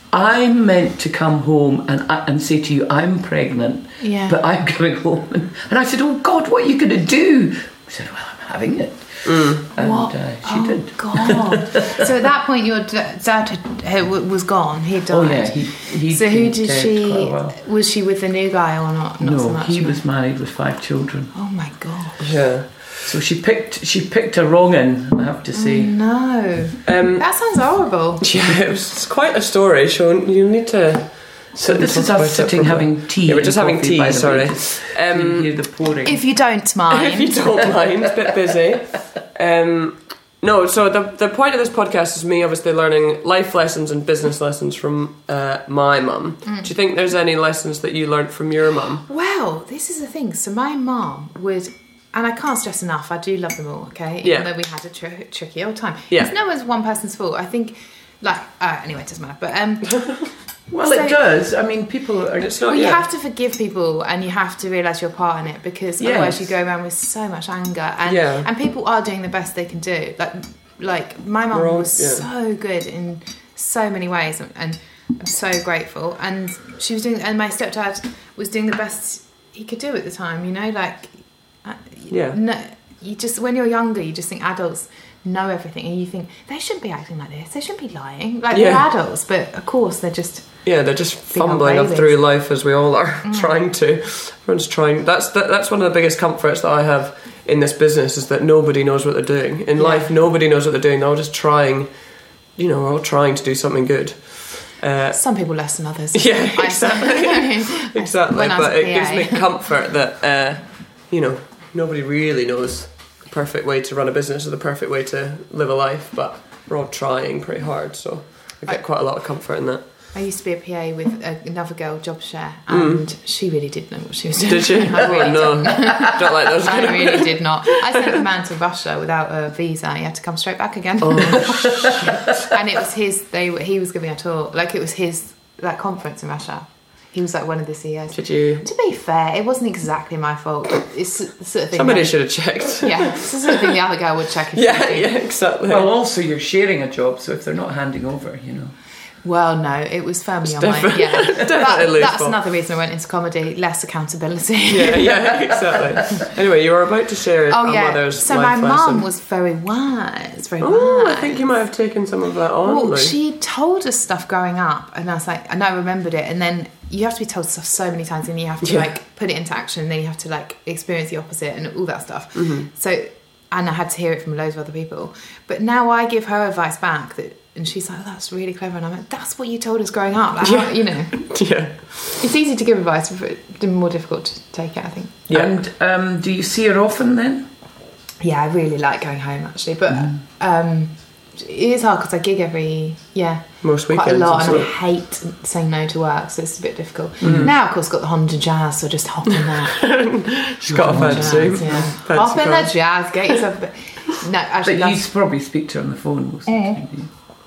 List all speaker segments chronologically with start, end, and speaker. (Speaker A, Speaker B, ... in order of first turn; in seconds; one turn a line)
Speaker A: 0.1-12.1
Speaker B: 4.0-4.4
Speaker C: 9.2-9.6
Speaker B: 9.7-20.0
Speaker A: 15.1-17.6
Speaker A: 19.2-21.3
Speaker B: 21.4-22.3
Speaker C: 22.2-22.9
Speaker A: 23.0-25.9
Speaker B: 25.5-28.2
Speaker C: 26.9-27.3
Speaker C: 28.2-35.5
Speaker A: 31.6-36.2
Speaker B: 36.0-37.5
Speaker C: 36.9-49.0
Speaker B: 46.5-46.7
Speaker B: 49.1-61.2
Speaker C: 54.2-54.5
Speaker A: 60.7-62.8
Speaker C: 62.4-63.0
Speaker B: 62.6-90.6
Speaker A: 66.0-66.5
Speaker C: 68.1-68.5
Speaker C: 71.5-72.3
Speaker C: 82.1-82.4
Speaker C: 88.5-88.9
Speaker C: 90.7-102.0
Speaker B: 91.3-92.2
Speaker B: 93.2-93.6
Speaker B: 99.8-100.1
Speaker C: 102.6-105.2
Speaker B: 105.2-109.5
Speaker C: 106.1-119.8
Speaker B: 120.1-142.2
Speaker C: 122.7-123.0
Speaker C: 124.5-128.2
Speaker C: 131.0-132.5
Speaker C: 138.1-138.7
Speaker C: 141.7-143.7
Speaker B: 142.7-145.1
Speaker C: 144.5-145.8
Speaker A: 145.7-148.8
Speaker B: 149.2-155.3
Speaker C: 150.4-152.4
Speaker C: 154.7-159.1
Speaker B: 157.5-161.5
Speaker C: 160.6-163.2
Speaker B: 162.6-181.4
Speaker C: 172.3-172.7
Speaker C: 180.4-182.2
Speaker B: 182.2-185.2
Speaker C: 185.3-185.6
Speaker A: 185.3-187.5
Speaker B: 188.2-199.9
Speaker C: 193.6-194.7
Speaker A: 197.2-197.5
Speaker C: 197.2-197.5
Speaker C: 199.5-202.7
Speaker A: 200.7-201.9
Speaker B: 200.8-205.0
Speaker A: 204.6-207.1
Speaker B: 206.5-206.8